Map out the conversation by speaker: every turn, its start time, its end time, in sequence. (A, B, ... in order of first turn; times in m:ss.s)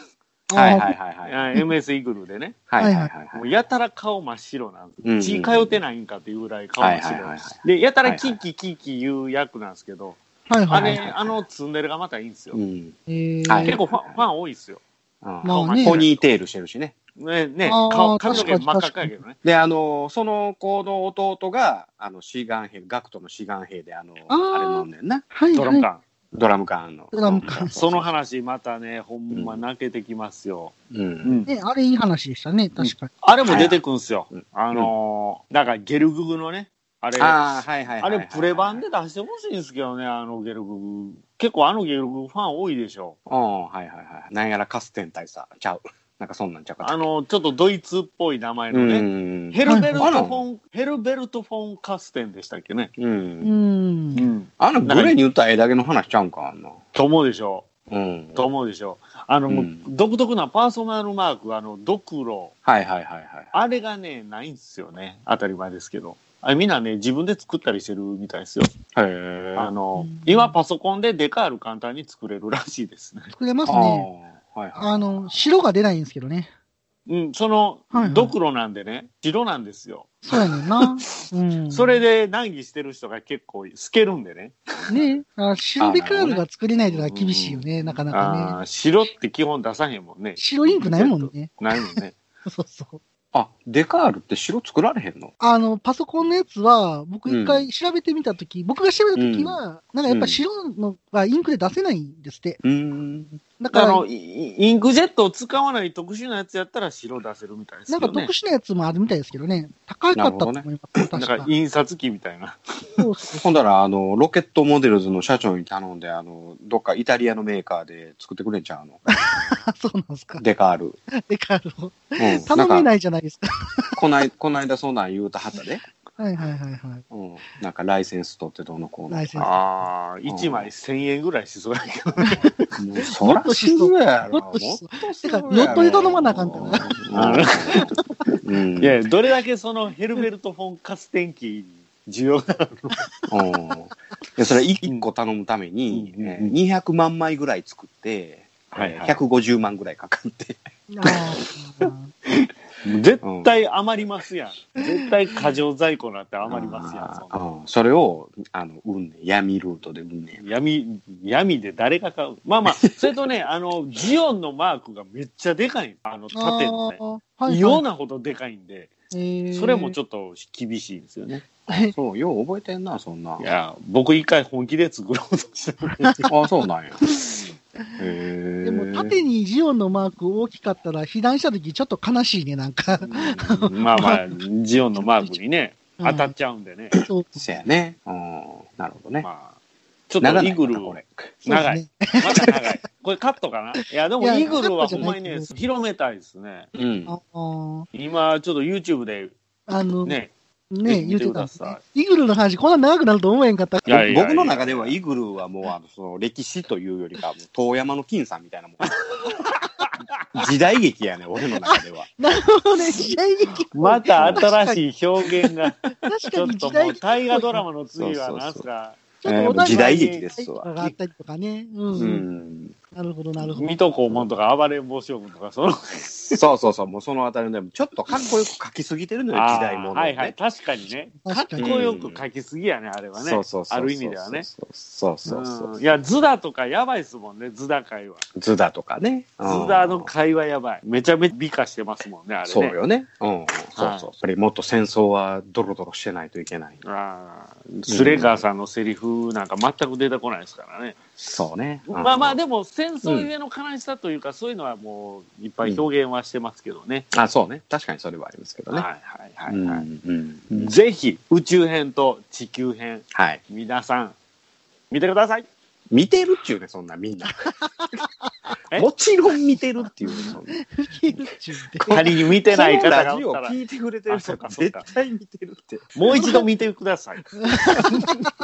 0:00.5-0:00.9 A
0:00.5-0:01.4 B
0:01.2-0:02.6 C
0:02.7-0:03.5 B
0:02.8-0:03.1 A
0:03.3-0:12.6 C
0:05.0-0:05.8 B
0:06.8-0:08.4 B
0:10.5-0:11.0 A
0:10.7-0:11.4 B
0:12.5-0:14.2 B
0:13.1-0:13.8 A
0:13.6-0:14.8 C
0:15.2-0:16.9 B
0:15.4-0:16.0 A
0:15.4-0:16.3 C
0:17.2-0:19.4 C
0:17.7-0:19.1 A
0:18.2-0:18.6 B
0:19.4-0:25.3 B
0:24.3-0:25.9 A
0:25.5-0:26.0 C
0:26.3-0:28.1 B
0:27.1-0:27.7 A
0:27.4-0:31.5 C
0:29.3-0:29.6 B
0:30.9-0:31.5 B
0:31.5-0:33.1 A
0:32.8-0:43.2 C
0:33.4-0:33.8 B
0:34.3-0:34.9 B
0:37.2-0:38.8 B
0:43.3-0:47.0 B
0:46.8-0:52.9 C
0:48.7-0:50.4 B
0:49.7-0:50.0 A
0:53.0-0:53.5 B
0:53.4-0:54.3 A
0:54.1-0:55.1 C
0:54.6-0:56.8 B
0:56.9-0:57.7 C
0:57.9-0:58.5 B
0:58.4-1:02.5 C
0:59.5-0:59.8 B
1:02.6-1:03.6 B
1:03.5-1:08.7 C
1:08.9-1:09.7 B
1:09.6-1:13.3 C
1:10.0-1:10.5 A
1:13.3-1:14.1 A
1:13.6-1:15.4 B
1:14.8-1:16.5 A
1:17.1-1:20.9 C
1:17.9-1:18.3 A
1:20.2-1:22.0 A
1:21.7-1:24.6 C
1:24.9-1:28.6 A
1:25.8-1:26.4 B
1:26.9-1:32.1 C
1:30.4-1:33.0 A
1:33.3-1:35.3 B
1:35.4-1:42.6 A
1:37.3-1:37.6 B
1:39.1-1:40.4 B
1:42.6-1:43.3 B
1:43.6-1:44.0 A
1:43.7-1:48.3 C
1:47.9-1:51.5 A
1:50.1-1:50.7 B
1:51.2-1:52.6 C
1:53.0-1:53.4 A
1:53.4-1:59.0 B
1:59.1-2:00.4 A
2:00.4-2:01.0 B
2:01.1-2:04.0 A
2:02.2-2:02.9 B
2:04.0-2:05.8 B
2:06.2-2:07.0 A
2:07.1-2:09.5 B
2:09.1-2:09.6 A
2:09.4-2:12.5 C
2:10.3-2:10.7 B
2:12.2-2:12.5 A
2:12.8-2:19.0 B
2:13.1-2:16.9 A
2:15.5-2:17.8 C
2:17.7-2:18.2 A
2:18.8-2:23.0 C
2:23.3-2:31.2 B
2:25.9-2:26.6 C
2:28.7-2:29.2 C
2:30.9-2:32.1 A
2:32.4-2:37.4 C
2:33.2-2:33.5 B
2:36.4-2:40.4 B
2:40.4-2:48.9 C
2:42.7-2:43.1 B
2:46.3-2:47.8 A
2:49.1-2:50.0 A
2:49.5-2:51.5 C
2:51.6-2:53.5 B
2:51.7-2:51.9 A
2:53.4-2:56.2 C
2:56.3-2:57.0 B
2:58.0-2:59.2 B
2:58.6-3:04.2 A
3:03.0-3:07.0 C
3:05.0-3:05.4 A
3:06.0-3:06.3 A
3:07.0-3:07.5 A
3:07.4-3:09.3 B
3:09.2-3:09.6 C
3:10.1-3:16.7 C
3:10.2-3:11.3 B
3:11.4-3:12.5 A
3:14.2-3:15.5 A
3:14.4-3:15.1 B
3:16.7-3:17.2 B
3:17.1-3:17.9 A
3:17.9-3:19.3 C
3:19.7-3:20.2 A
3:20.0-3:20.3 C
3:20.7-3:24.1 A
3:20.8-3:21.8 C
3:23.9-3:25.0 C
3:23.9-3:29.3 B
3:30.3-3:32.1 B
3:31.6-3:34.8 A
3:33.7-3:39.0 C
3:34.2-3:34.5 B
3:36.0-3:37.6 A
3:38.0-3:38.6 B
3:39.2-3:42.2 A
3:39.2-3:40.9 B
3:39.6-3:40.2 C
3:41.9-3:42.8 B
3:42.9-3:43.6 A
3:43.5-3:46.4 C
3:46.3-3:50.4 B
3:49.3-3:54.5 C
3:51.2-3:51.8 A
3:51.6-3:52.2 B
3:53.2-3:55.8 B
3:55.2-3:58.2 C
3:58.3-4:00.1 B
3:59.4-4:02.8 C
4:02.5-4:06.8 B
4:03.8-4:04.1 C
4:06.8-4:11.2 C
4:07.8-4:08.4 B
4:11.2-4:12.4 B
4:11.9-4:17.1 C
4:17.1-4:18.9 B
4:18.7-4:19.8 C
4:19.5-4:20.8 B
4:20.5-4:24.2 C
4:23.1-4:23.4 B
4:24.9-4:25.5 C
4:25.9-4:27.5 B
4:28.7-4:30.6 B
4:30.5-4:32.1 A
4:31.8-4:36.2 B
4:31.9-4:33.5 C
4:34.1-4:34.8 C
4:36.0-4:37.9 C
4:36.2-4:36.4 A
4:37.4-4:38.2 A